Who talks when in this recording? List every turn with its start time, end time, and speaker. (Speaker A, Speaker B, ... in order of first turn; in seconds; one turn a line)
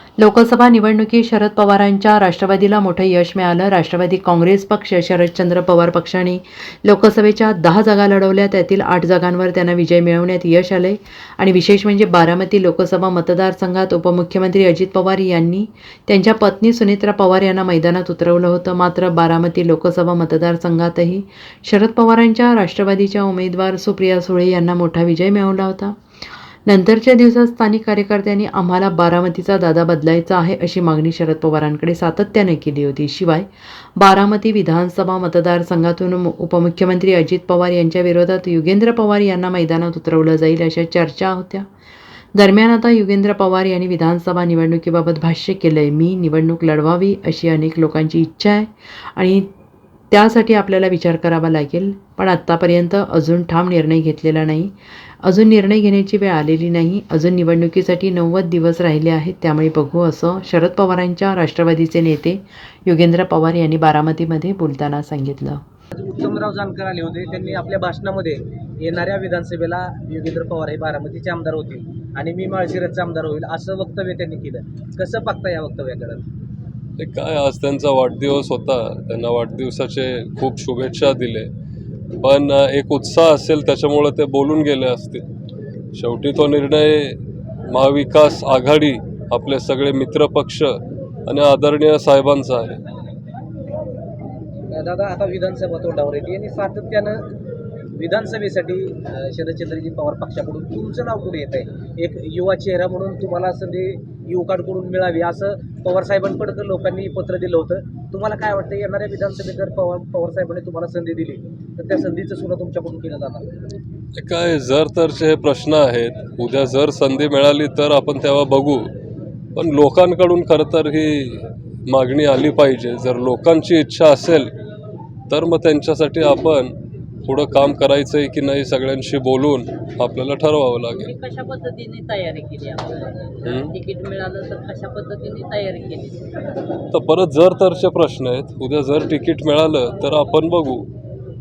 Speaker A: 0.2-25.9
Speaker A: 26.6-41.7
Speaker A: 42.3-49.5
Speaker A: 50.1-54.7
Speaker A: 55.2-65.6
Speaker B: 66.0-76.2
Speaker C: 77.0-81.5
Speaker C: 82.2-85.2
Speaker C: 85.9-87.2
Speaker C: 87.7-90.7
Speaker C: 91.3-92.8
Speaker B: 94.7-97.2
Speaker B: 97.9-113.5
Speaker C: 114.2-118.9
Speaker C: 119.5-124.5
Speaker C: 125.3-126.7
Speaker C: 127.2-131.1
Speaker D: 130.9-136.2
Speaker C: 133.4-133.7
Speaker C: 136.9-140.8